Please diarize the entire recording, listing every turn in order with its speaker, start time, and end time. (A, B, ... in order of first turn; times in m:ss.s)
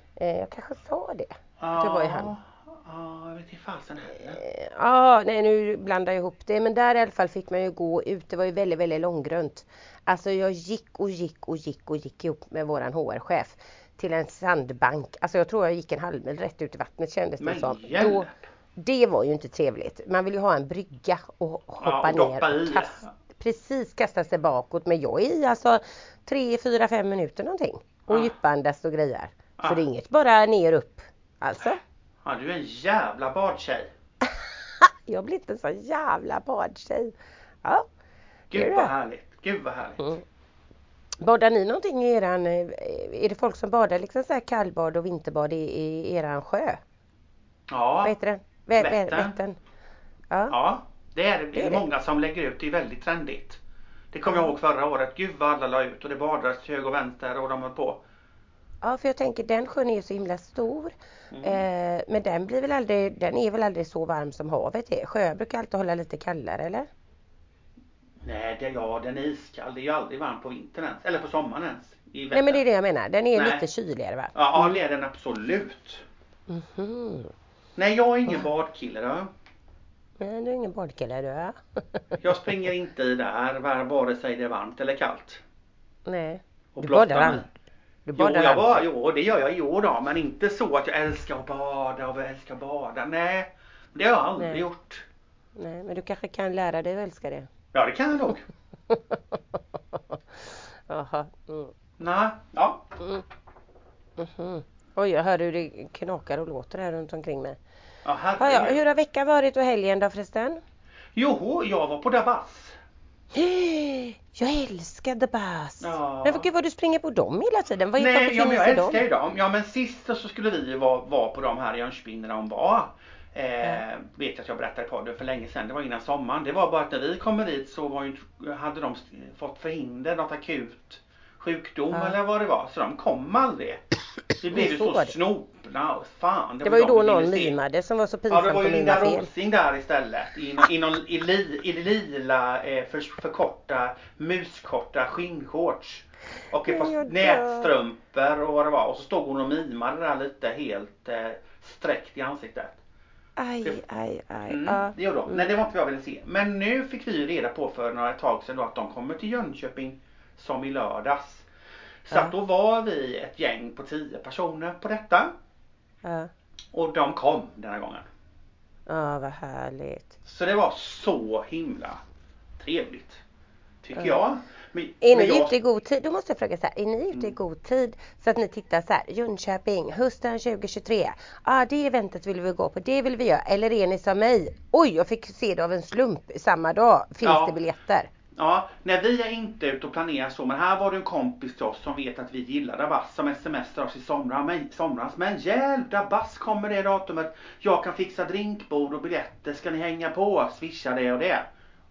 0:00.2-0:02.3 A
0:01.6-0:04.4 B
0:04.2-0:31.8 A
0:17.4-0:18.3 B
0:21.8-0:23.1 B
0:29.6-0:29.8 B
0:32.2-0:33.9 B
0:34.2-0:37.9 A
0:38.5-0:40.1 B
0:38.5-0:38.9 A
0:41.2-0:46.8 A
0:47.7-0:48.1 B
0:48.0-0:49.6 A
0:48.8-0:49.4 B
0:50.3-0:50.6 A
0:50.5-0:53.6 B
0:51.5-0:51.8 A
0:54.1-0:58.0 B
0:54.3-0:54.5 A
0:58.8-1:06.9 A
1:01.3-1:01.6 B
1:08.2-1:12.6 B
1:12.3-1:14.8 A
1:13.3-1:13.6 B
1:14.3-1:16.0 B
1:16.5-1:17.3 A
1:17.8-1:19.3 B
1:20.2-1:22.0 A
1:22.2-1:25.4 B
1:26.1-1:27.5 A
1:26.8-1:27.5 B
1:28.1-1:28.8 A
1:28.2-1:35.0 B
1:35.6-1:37.5 A
1:37.7-1:38.4 B
1:38.9-1:40.2 A
1:40.9-1:41.7 A
1:42.0-1:42.8 B
1:43.0-1:43.2 A
1:44.2-1:47.6 A
1:48.0-1:48.8 B
1:48.4-1:50.6 A
1:51.1-1:52.8 B
1:53.3-1:59.0 A
1:55.8-1:56.5 B
1:58.0-2:13.8 B
2:14.4-2:17.6 B
2:14.5-2:15.2 A
2:16.6-2:19.3 A
2:18.3-2:32.8 B
2:26.7-2:27.7 A
2:33.4-2:35.4 A
2:34.5-2:41.5 B
2:42.0-2:45.3 B
2:46.0-2:46.3 A
2:46.7-2:48.1 B
2:48.9-2:50.2 A
2:50.2-2:52.0 B
2:52.6-2:53.2 B
2:53.8-2:55.5 B
2:54.0-2:54.2 A
2:55.0-3:08.1 A
3:07.2-3:07.5 B
3:08.4-3:21.5 B